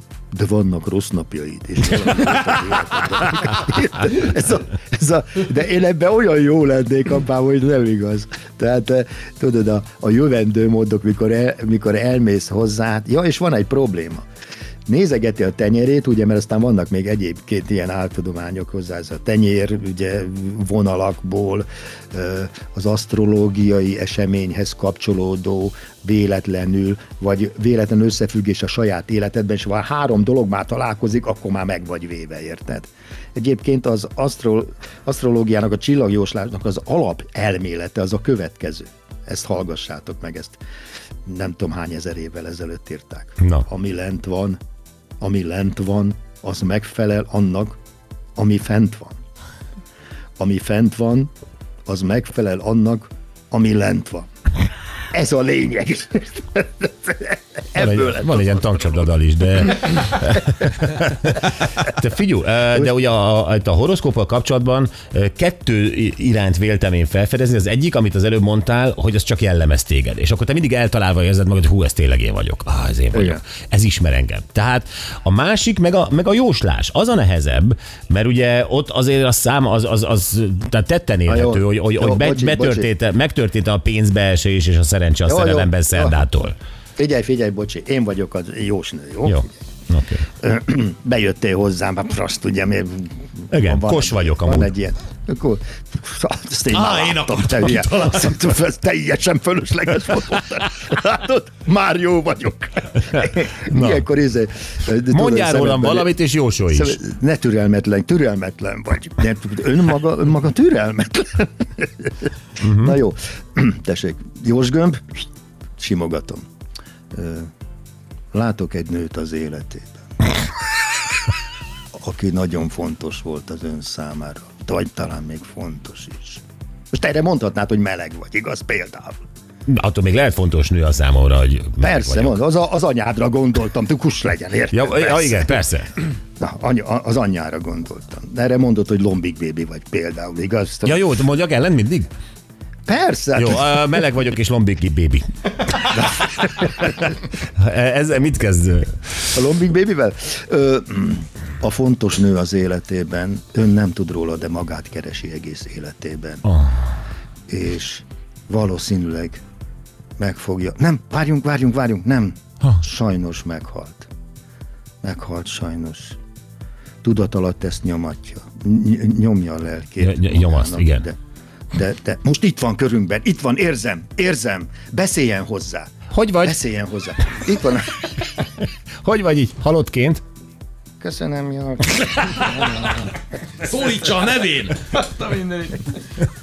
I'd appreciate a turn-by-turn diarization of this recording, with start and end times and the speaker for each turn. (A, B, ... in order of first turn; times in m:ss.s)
0:00.3-0:14.2 A
0:14.9-0:40.6 A
0:41.3-0:44.6 A
0:45.2-0:47.8 A
0:48.4-0:49.2 A
0:50.4-0:51.3 A
0:51.9-0:54.3 A
0:55.1-0:58.7 A
0:57.8-1:01.3 B
1:02.0-1:26.5 B
1:13.1-1:13.4 A
1:21.3-1:22.9 A
1:25.3-1:26.3 A
1:27.0-1:29.5 A
1:29.3-1:30.1 B
1:30.4-1:46.1 A
1:33.5-1:34.6 B
1:36.7-1:38.4 C
1:43.7-1:44.0 B
1:45.1-1:46.9 B
1:46.7-1:52.1 A
1:52.6-1:52.9 B
1:52.7-1:55.2 A
1:55.8-1:56.4 A
1:57.1-1:57.5 A
1:58.3-2:00.3 A
2:02.0-2:09.2 A
2:09.7-2:12.2 B
2:11.8-2:15.6 A
2:14.7-2:15.9 B
2:16.4-2:21.0 A
2:20.9-2:22.1 B
2:22.9-2:23.8 A
2:23.4-2:25.2 B
2:27.6-2:28.8 B
2:29.4-2:36.4 A
2:37.5-2:39.4 A
2:40.2-2:44.1 A
2:45.0-2:46.2 A
2:47.0-2:51.2 A
2:50.0-2:51.0 B
2:51.7-2:55.9 A
2:56.1-2:56.5 B
2:56.4-2:58.0 A
2:59.0-3:00.2 B
3:01.0-3:03.2 A
3:03.6-3:05.3 C